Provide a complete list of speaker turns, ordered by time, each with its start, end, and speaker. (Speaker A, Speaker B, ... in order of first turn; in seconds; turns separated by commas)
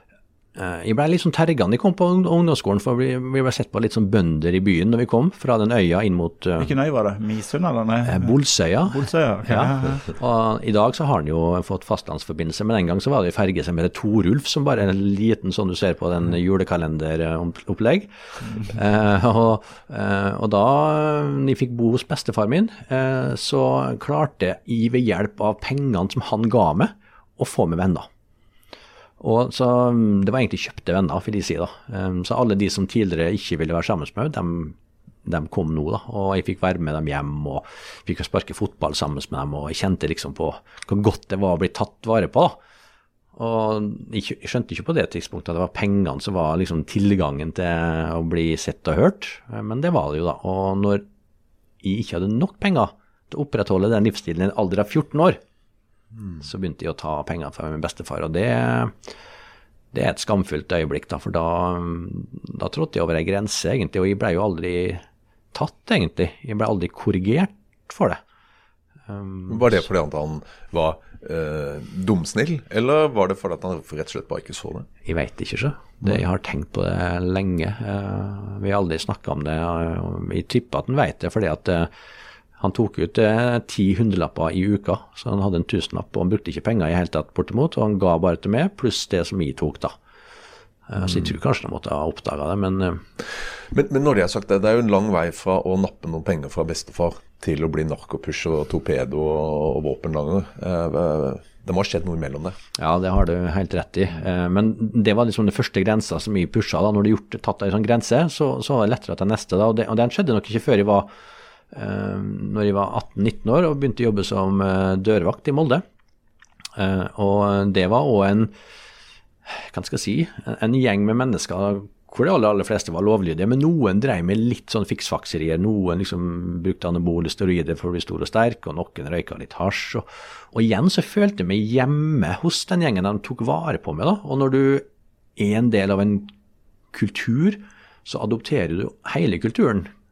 Speaker A: 0.6-6.7, Speaker B: 6.6-8.3, Speaker A: 8.0-28.1, Speaker B: 8.9-10.1, Speaker A: 29.2-42.6, Speaker A: 43.4-51.0, Speaker A: 51.8-55.4, Speaker A: 56.4-58.9, Speaker A: 59.9-68.2, Speaker A: 69.1-69.8, Speaker C: 69.5-74.9, Speaker A: 75.0-81.9, Speaker A: 82.6-89.9, Speaker A: 90.9-93.0, Speaker C: 93.7-102.6, Speaker A: 102.8-111.1, Speaker A: 111.7-115.8, Speaker A: 116.8-118.5, Speaker A: 119.5-134.8, Speaker A: 135.3-136.3, Speaker A: 136.9-139.9